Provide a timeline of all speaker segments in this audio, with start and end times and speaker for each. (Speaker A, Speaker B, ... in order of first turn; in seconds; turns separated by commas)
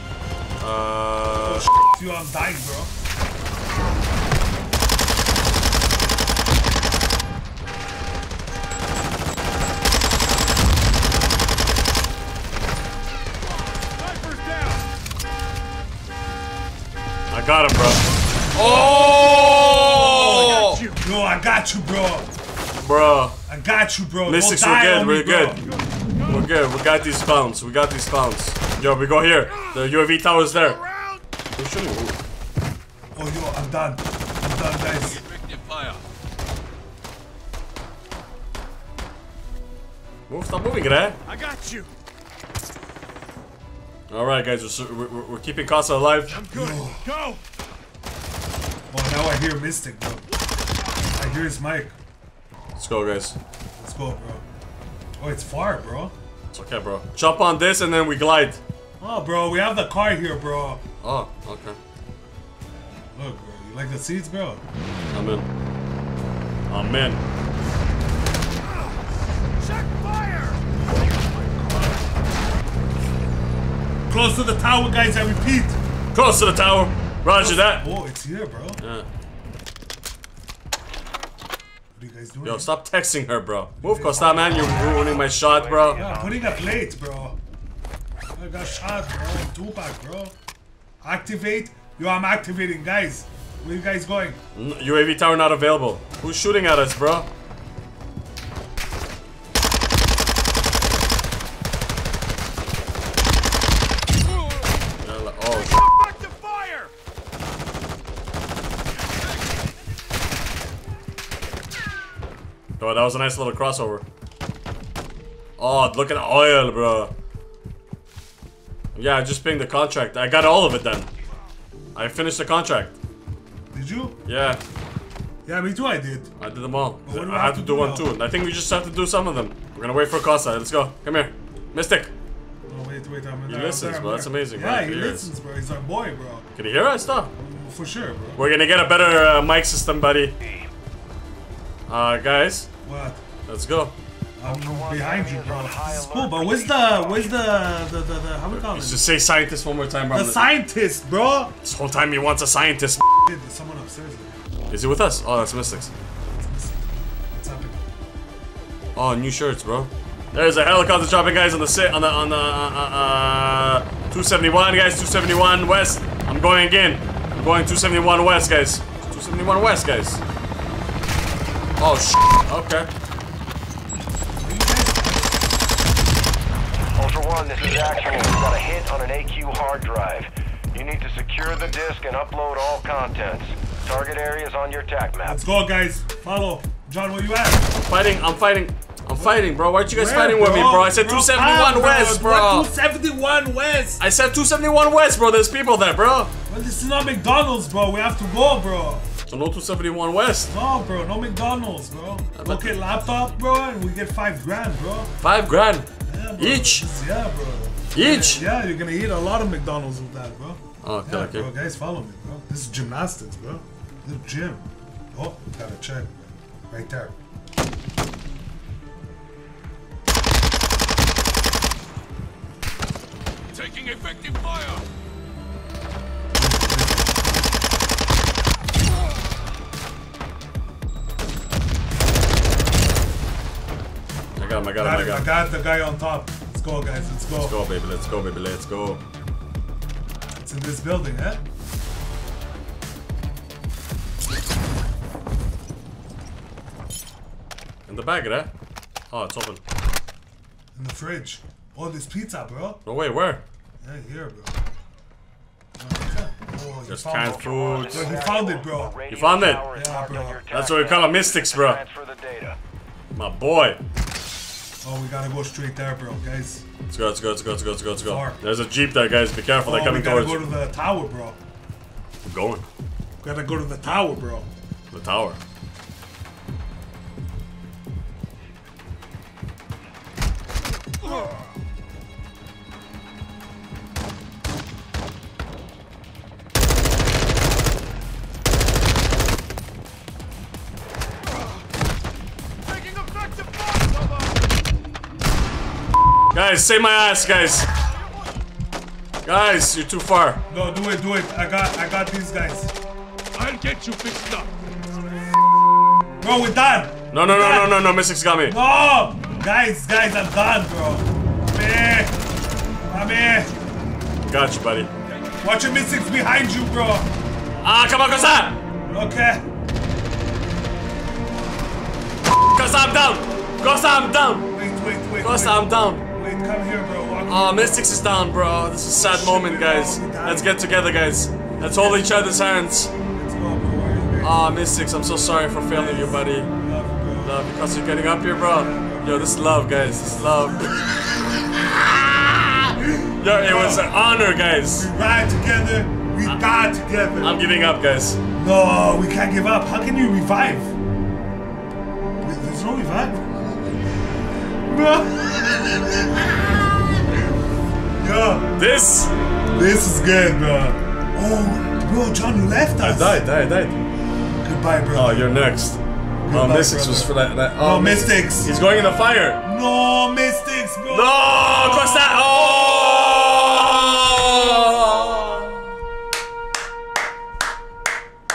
Speaker A: 0.6-1.7, Speaker B: 1.4-2.9, Speaker C: 13.5-14.8, Speaker A: 17.3-20.8, Speaker C: 18.6-21.1, Speaker B: 18.6-19.1, Speaker B: 19.8-22.3, Speaker A: 22.8-23.4, Speaker B: 23.5-25.6, Speaker A: 24.3-25.6, Speaker C: 25.6-27.1, Speaker A: 26.3-30.8, Speaker C: 29.5-31.2, Speaker A: 31.6-32.2, Speaker B: 33.1-35.2, Speaker C: 35.0-36.0, Speaker A: 40.3-41.2, Speaker C: 41.3-41.9, Speaker A: 44.1-46.4, Speaker C: 46.3-47.4, Speaker B: 46.5-47.1, Speaker B: 48.9-50.3, Speaker C: 50.3-51.2, Speaker B: 51.1-52.0, Speaker A: 52.8-53.4, Speaker B: 53.8-54.4, Speaker B: 55.2-56.1, Speaker A: 56.5-58.6, Speaker B: 59.0-60.8, Speaker A: 61.0-61.8, Speaker B: 63.1-64.6, Speaker A: 65.1-65.5, Speaker A: 66.7-67.2, Speaker C: 69.6-70.6, Speaker B: 70.9-72.1, Speaker B: 74.1-75.8, Speaker A: 76.1-77.9, Speaker B: 77.3-78.8, Speaker A: 78.8-79.1, Speaker B: 82.0-82.7, Speaker A: 82.4-86.0, Speaker B: 83.8-84.9, Speaker D: 85.0-86.8, Speaker B: 86.0-87.4, Speaker B: 88.3-90.3, Speaker B: 91.0-94.4, Speaker A: 94.5-97.3, Speaker C: 104.3-104.8, Speaker A: 105.0-105.8, Speaker C: 105.6-106.9, Speaker C: 109.1-109.8, Speaker A: 112.8-114.0, Speaker A: 115.6-117.1, Speaker A: 119.0-121.1, Speaker A: 122.0-123.0, Speaker B: 123.7-124.2, Speaker A: 124.3-124.6, Speaker B: 125.5-126.3, Speaker A: 126.4-132.1, Speaker B: 127.0-128.1, Speaker B: 132.7-136.5, Speaker A: 133.5-135.3, Speaker A: 136.6-137.3, Speaker B: 137.3-138.4, Speaker A: 138.4-140.3, Speaker D: 140.4-140.7, Speaker A: 141.9-142.7, Speaker B: 142.8-143.2, Speaker A: 143.5-143.9, Speaker B: 144.4-149.1, Speaker D: 144.4-147.4, Speaker A: 148.5-150.4, Speaker B: 150.1-151.5, Speaker A: 151.6-153.1, Speaker B: 153.2-154.4, Speaker A: 154.7-155.9, Speaker B: 156.1-157.9, Speaker A: 158.9-170.2, Speaker A: 171.8-172.9, Speaker B: 174.4-175.5, Speaker D: 176.9-185.4, Speaker B: 185.2-187.7, Speaker A: 187.8-192.7, Speaker B: 189.2-194.0, Speaker A: 194.0-196.3, Speaker B: 196.5-199.1, Speaker A: 199.3-200.5, Speaker B: 200.5-205.1, Speaker A: 202.3-202.8, Speaker A: 205.2-206.8, Speaker B: 206.1-217.2, Speaker A: 207.9-208.4, Speaker A: 210.8-211.5, Speaker C: 223.5-224.9, Speaker B: 226.3-227.3, Speaker A: 234.4-235.3, Speaker B: 234.8-237.6, Speaker A: 237.4-239.0, Speaker B: 240.4-241.4, Speaker A: 247.9-248.5, Speaker A: 249.1-249.6, Speaker B: 250.7-252.8, Speaker A: 252.8-253.4, Speaker B: 253.8-254.6, Speaker B: 255.8-259.0, Speaker A: 256.9-258.1, Speaker D: 257.1-262.6, Speaker A: 259.1-259.6, Speaker B: 259.7-260.4, Speaker A: 260.5-261.8, Speaker A: 263.1-263.8, Speaker B: 264.8-266.7, Speaker A: 266.9-270.5, Speaker B: 268.0-268.4, Speaker B: 269.6-271.4, Speaker A: 272.2-272.7, Speaker B: 273.2-274.5, Speaker A: 274.9-275.4, Speaker C: 292.6-294.6, Speaker A: 296.3-297.7, Speaker A: 299.2-300.4, Speaker B: 300.5-302.7, Speaker C: 303.3-304.5, Speaker B: 306.2-307.8, Speaker A: 307.1-308.6, Speaker B: 308.4-312.2, Speaker B: 312.8-313.5, Speaker A: 314.2-314.9, Speaker B: 315.4-317.1, Speaker A: 317.6-318.6, Speaker B: 318.9-319.4, Speaker A: 322.4-324.5, Speaker B: 324.5-328.0, Speaker A: 325.2-326.1, Speaker A: 327.3-332.9, Speaker B: 329.0-330.6, Speaker B: 331.6-332.3, Speaker B: 333.0-334.5, Speaker A: 334.2-336.5, Speaker B: 335.7-337.5, Speaker A: 337.2-344.9, Speaker B: 338.3-341.4, Speaker B: 342.8-343.9, Speaker B: 344.6-347.4, Speaker A: 347.2-348.2, Speaker B: 348.4-350.8, Speaker B: 352.2-353.3, Speaker B: 354.6-356.8, Speaker B: 358.0-358.6, Speaker A: 358.6-359.1, Speaker B: 359.5-363.2, Speaker A: 362.8-363.8, Speaker B: 364.3-365.3, Speaker A: 364.9-369.4, Speaker B: 366.2-368.6, Speaker B: 369.4-372.1, Speaker A: 370.9-375.7